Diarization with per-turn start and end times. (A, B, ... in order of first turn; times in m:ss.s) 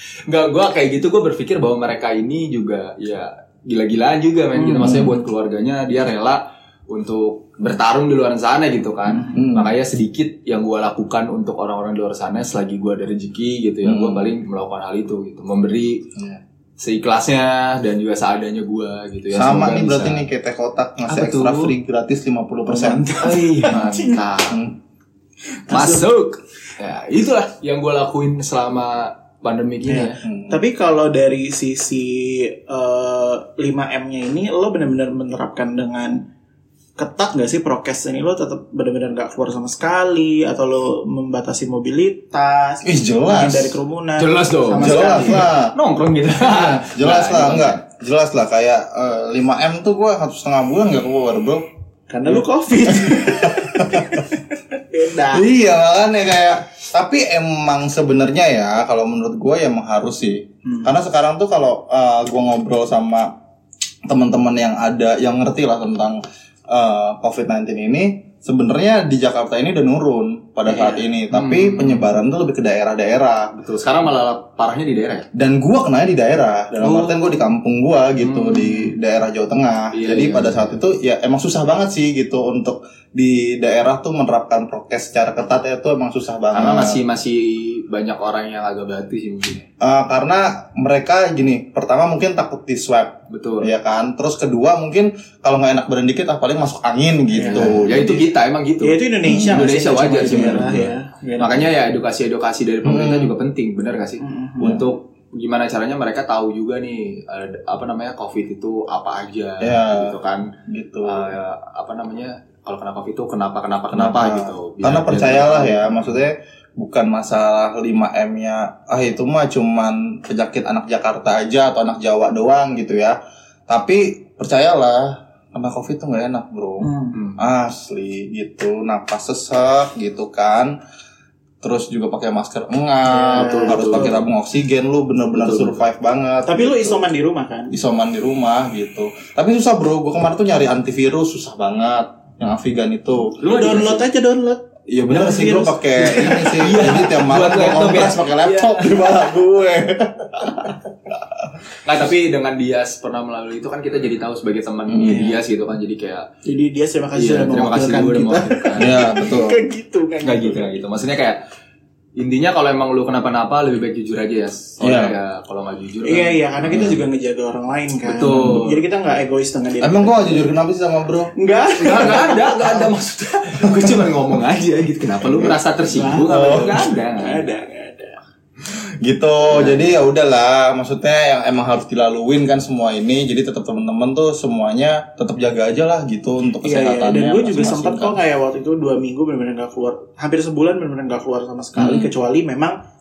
0:00.3-0:16.1 A
0:04.6-0:05.1 B
0:04.8-0:05.1 C
0:09.3-0:09.7 C
0:13.8-0:14.3 C
0:16.2-0:16.4 C
0:16.8-0:20.3 A
0:19.3-0:23.2 C
0:21.1-0:21.7 A
0:22.7-0:24.6 A
0:23.3-0:24.2 B
0:23.7-0:24.8 C
0:25.7-0:30.2 A
0:25.7-0:26.1 B
0:29.9-0:36.2 B
0:30.2-0:30.6 C
0:37.0-0:45.5 B
0:42.8-0:43.8 C
0:44.2-0:47.8 A
0:44.8-0:45.8 C
0:46.4-0:51.7 C
0:52.1-0:55.5 B
0:52.3-0:54.3 C
0:55.3-1:03.3 C
1:00.6-1:00.9 B
1:04.1-1:13.5 C
1:10.7-1:11.0 B
1:11.3-1:12.1 A
1:13.5-1:15.3 A
1:15.3-1:27.0 C
1:16.8-1:17.2 A
1:18.2-1:18.9 A
1:19.9-1:20.8 A
1:26.5-1:29.6 A
1:29.8-1:38.2 C
1:33.3-1:33.7 A
1:37.3-1:38.2 B
1:37.5-1:50.5 A
1:38.8-1:41.7 B
1:39.2-1:39.7 C
1:40.2-1:40.9 C
1:42.8-1:43.3 C
1:44.2-1:44.8 B
1:49.6-1:50.2 C
1:50.7-1:51.3 C
1:51.0-1:56.1 A
1:53.9-2:10.8 C
2:06.8-2:07.2 B
2:07.1-2:07.4 A
2:11.6-2:17.0 C
2:13.1-2:14.2 B
2:13.4-2:14.2 A
2:15.4-2:15.8 A
2:16.4-2:17.7 B
2:17.7-2:23.4 C
2:23.4-2:24.1 A
2:23.4-2:26.7 B
2:24.9-2:31.3 C
2:26.4-2:29.0 A
2:31.8-2:36.3 A
2:34.9-2:35.3 C
2:36.4-2:40.8 B
2:37.2-2:39.0 A
2:38.8-2:39.6 C
2:40.2-2:41.4 A
2:42.2-2:46.8 A
2:44.8-2:45.2 C
2:46.0-2:50.5 B
2:46.7-2:47.0 C
2:48.0-2:48.8 A
2:48.2-2:48.6 C
2:49.8-2:51.3 C
2:51.4-2:52.9 B
2:51.8-2:57.5 A
2:55.2-2:55.6 C
2:55.9-2:58.2 B
2:56.3-2:56.8 C
2:58.6-3:08.2 C
2:59.5-2:59.8 A
3:06.6-3:12.8 B
3:11.8-3:12.1 C